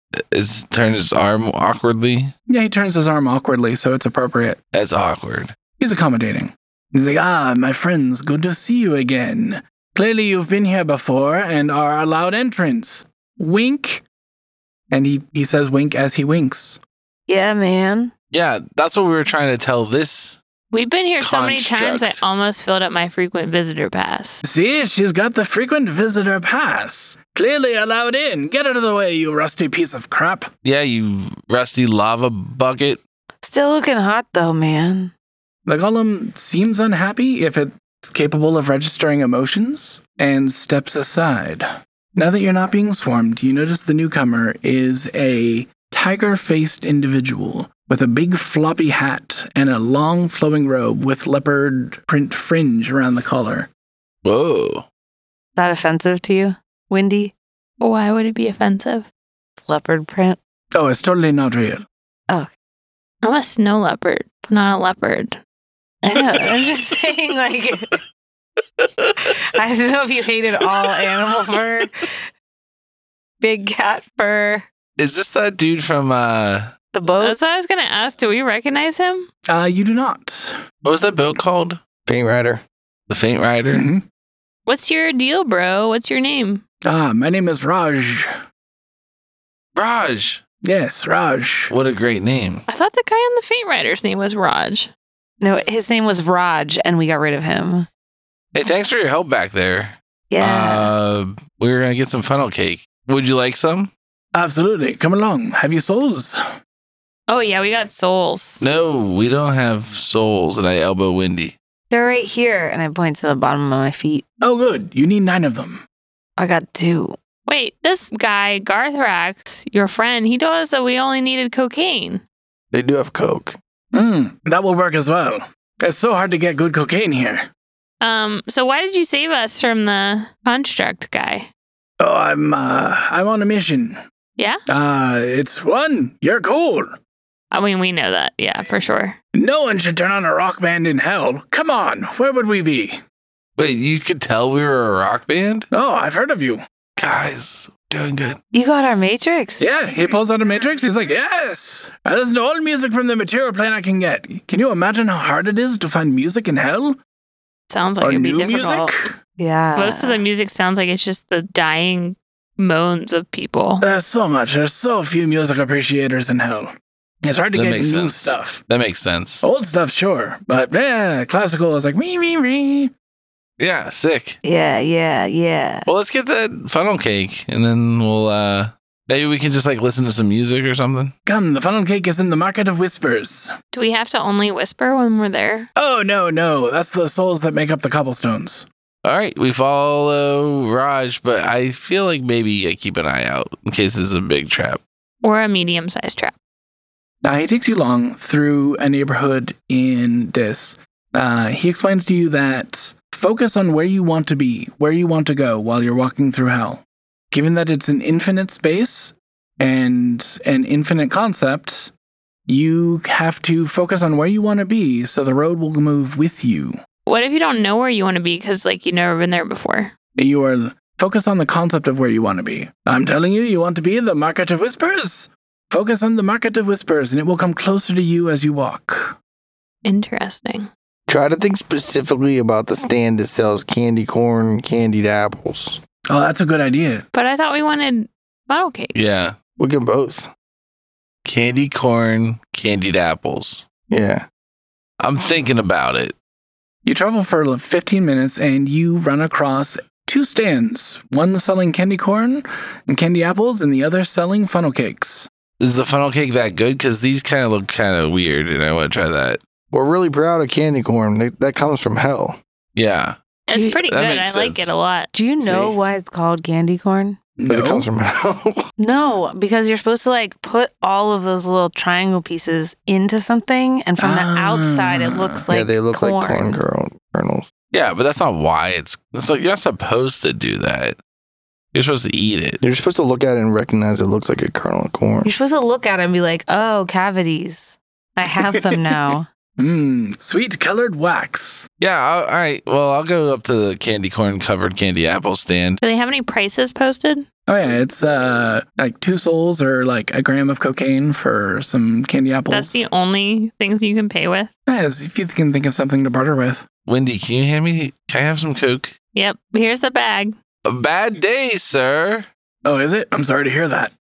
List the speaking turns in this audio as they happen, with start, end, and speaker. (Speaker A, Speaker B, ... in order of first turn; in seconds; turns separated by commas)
Speaker A: 0.3-2.3, Speaker B: 2.5-4.6, Speaker A: 4.7-5.6, Speaker B: 5.8-14.0, Speaker B: 14.9-16.8, Speaker C: 17.3-18.1, Speaker A: 18.3-20.4, Speaker D: 20.7-24.4, Speaker A: 21.2-22.2, Speaker B: 24.4-30.5, Speaker A: 30.6-33.0, Speaker C: 33.4-35.1, Speaker B: 35.6-53.7, Speaker A: 54.2-54.8, Speaker C: 55.5-57.3, Speaker D: 57.8-59.1, Speaker C: 59.6-60.4, Speaker B: 60.7-61.8, Speaker D: 63.2-65.4, Speaker C: 66.0-68.0, Speaker A: 66.2-66.6, Speaker A: 68.8-69.1, Speaker C: 69.2-71.9, Speaker C: 73.4-74.6, Speaker A: 75.0-76.7, Speaker C: 76.9-77.3, Speaker D: 77.2-79.3, Speaker B: 79.5-80.5, Speaker A: 80.8-81.8, Speaker E: 82.0-82.6, Speaker A: 83.1-83.8, Speaker B: 83.7-84.0, Speaker D: 84.7-86.6, Speaker B: 86.8-88.3, Speaker A: 89.7-90.4, Speaker B: 90.6-91.7, Speaker A: 91.7-92.6, Speaker D: 92.7-94.9, Speaker C: 95.4-97.9, Speaker A: 98.5-103.9, Speaker C: 100.3-100.9, Speaker B: 104.3-106.4, Speaker D: 107.3-108.6, Speaker A: 108.6-111.5, Speaker C: 111.9-114.2, Speaker B: 114.4-115.8, Speaker C: 116.4-117.2, Speaker D: 117.5-122.2, Speaker E: 122.7-123.6, Speaker B: 123.9-127.5, Speaker D: 128.0-131.5, Speaker B: 132.0-134.0, Speaker B: 134.7-137.0, Speaker D: 137.5-139.2, Speaker B: 139.3-143.0, Speaker A: 143.6-145.7, Speaker B: 145.7-146.6, Speaker A: 147.0-148.4, Speaker C: 148.5-149.8, Speaker B: 149.6-157.0, Speaker D: 157.7-159.1, Speaker B: 158.0-159.1, Speaker C: 159.4-160.2, Speaker D: 159.7-163.8, Speaker B: 163.8-168.6, Speaker A: 167.5-169.4, Speaker B: 169.4-172.9, Speaker A: 173.6-174.4, Speaker C: 174.4-175.9, Speaker A: 175.8-181.1, Speaker B: 181.2-183.5, Speaker D: 183.7-185.7, Speaker B: 185.8-188.7, Speaker A: 189.0-194.8, Speaker D: 195.2-196.3, Speaker B: 197.2-211.9, Speaker B: 212.5-216.8, Speaker D: 217.1-219.9, Speaker B: 220.2-229.1, Speaker D: 229.8-230.7, Speaker E: 231.1-235.8, Speaker B: 236.1-237.0, Speaker D: 237.1-238.9, Speaker A: 238.9-239.3, Speaker E: 239.6-240.3, Speaker A: 241.2-243.7, Speaker E: 243.9-244.2, Speaker A: 245.0-246.1, Speaker B: 246.8-255.3, Speaker A: 255.6-259.4, Speaker E: 259.7-262.4, Speaker A: 262.7-263.2, Speaker D: 263.5-265.1, Speaker C: 263.5-263.8, Speaker A: 263.8-264.7, Speaker C: 265.1-267.2, Speaker E: 265.4-265.8, Speaker B: 267.4-267.9, Speaker E: 267.5-268.6, Speaker C: 268.8-276.6, Speaker B: 274.0-275.4, Speaker E: 275.5-277.5, Speaker A: 277.7-281.0, Speaker A: 281.7-282.6, Speaker E: 282.6-285.3, Speaker C: 285.2-289.3, Speaker B: 288.5-291.7, Speaker A: 291.8-295.8, Speaker D: 295.8-297.2, Speaker B: 297.5-302.9, Speaker D: 302.5-304.5, Speaker B: 304.7-306.7, Speaker A: 306.8-308.9, Speaker D: 309.1-310.3, Speaker A: 310.6-312.3, Speaker B: 312.6-313.9